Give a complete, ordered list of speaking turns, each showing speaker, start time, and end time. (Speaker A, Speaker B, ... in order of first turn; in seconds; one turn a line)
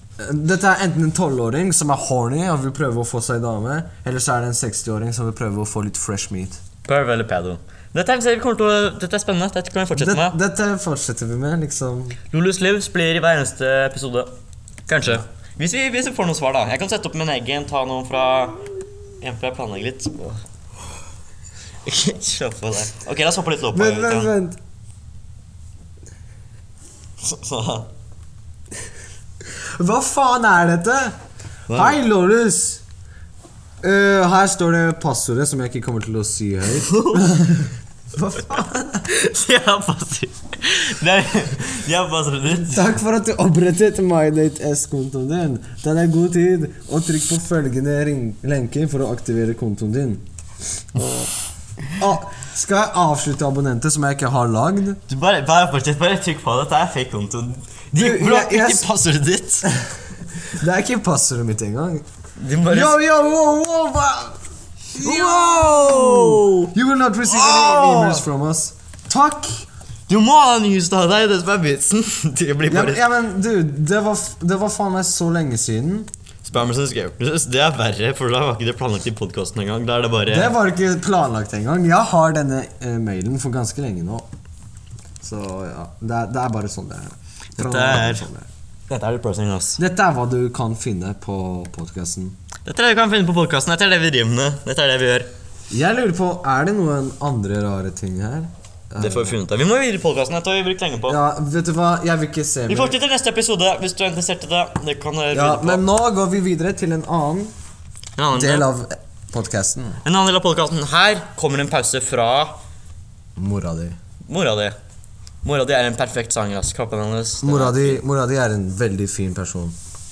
Speaker A: 0.2-6.6
Speaker B: 6.8-10.4
Speaker A: 9.9-12.2
Speaker B: 12.3-14.3
Speaker B: 14.9-18.7
Speaker B: 19.2-20.4
Speaker B: 21.8-24.3
Speaker A: 23.7-24.6
Speaker B: 27.2-27.9
Speaker A: 29.4-31.2
Speaker B: 31.7-32.0
Speaker A: 31.7-32.8
Speaker A: 33.8-39.0
Speaker B: 36.8-37.2
Speaker B: 39.0-42.9
Speaker A: 42.5-50.2
Speaker A: 50.9-51.3
Speaker A: 51.9-55.0
Speaker B: 55.1-59.7
Speaker A: 58.0-58.9
Speaker A: 60.4-62.0
Speaker B: 62.4-63.0
Speaker A: 62.6-64.4
Speaker A: 64.9-69.7
Speaker B: 64.9-66.7
Speaker B: 67.2-68.2
Speaker B: 70.1-73.0
Speaker A: 72.7-76.1
Speaker B: 76.4-80.5
Speaker A: 80.3-84.3
Speaker A: 85.2-88.5
Speaker B: 87.6-88.2
Speaker B: 88.9-89.8
Speaker A: 89.8-92.4
Speaker B: 92.6-95.3
Speaker A: 95.7-99.3
Speaker B: 99.0-101.2
Speaker A: 101.1-103.0
Speaker B: 102.7-105.8
Speaker A: 105.3-107.5
Speaker B: 108.2-108.7
Speaker A: 108.3-110.0
Speaker B: 110.0-112.6
Speaker A: 113.3-114.0
Speaker B: 114.2-114.8
Speaker B: 115.4-118.0
Speaker A: 117.4-119.8